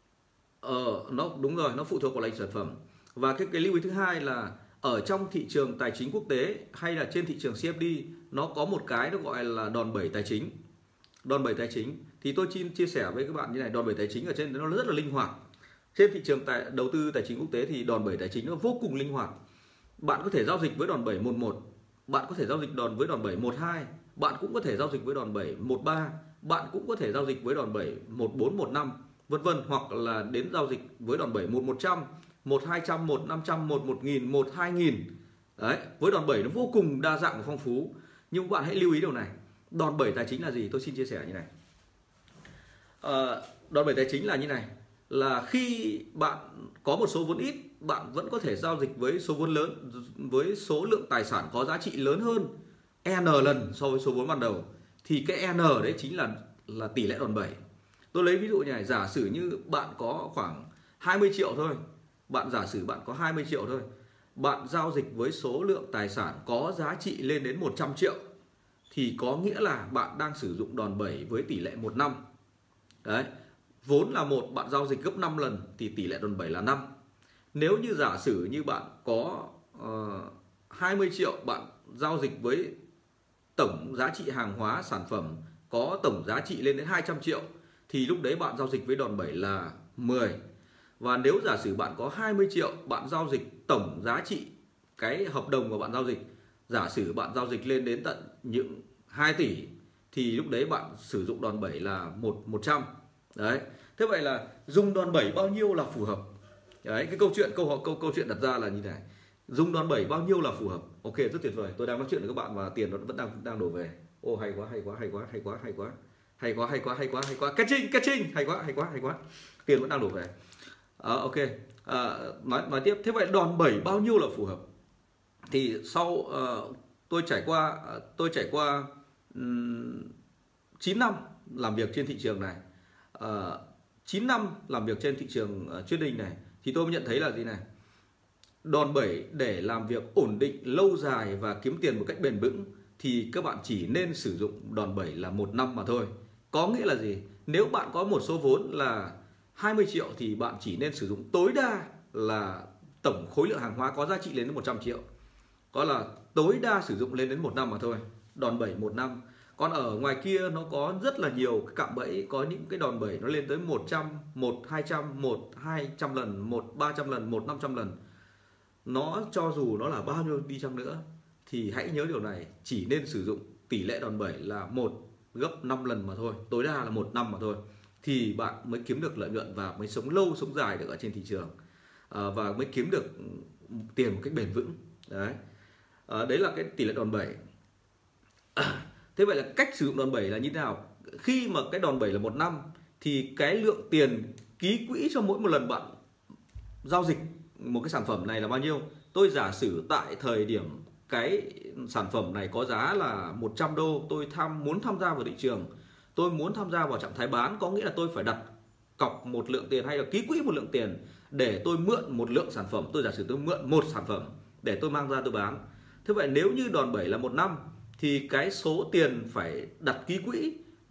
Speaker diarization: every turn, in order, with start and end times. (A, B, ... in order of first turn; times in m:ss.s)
0:00.6-0:10.5 A
0:11.2-0:15.4 A
0:15.9-0:19.3 A
0:20.0-0:35.0 A
0:35.6-0:41.5 A
0:43.0-0:52.5 A
0:53.0-0:57.6 A
0:58.1-1:03.8 A
1:04.4-1:08.2 A
1:08.9-1:12.2 A
1:13.0-1:13.3 A
1:13.8-1:16.9 A
1:17.5-1:22.7 A
1:23.6-1:30.4 A
1:31.0-1:46.3 A
1:46.8-2:00.3 A
2:01.0-2:04.6 A
2:05.5-2:10.1 A
2:10.8-2:12.6 A
2:13.2-2:17.6 A
2:18.6-2:35.0 A
2:35.7-2:48.0 A
2:48.9-3:01.5 A
3:02.1-3:05.4 A
3:06.1-3:07.4 A
3:08.6-3:15.9 A
3:16.8-3:28.5 A
3:29.0-3:40.6 A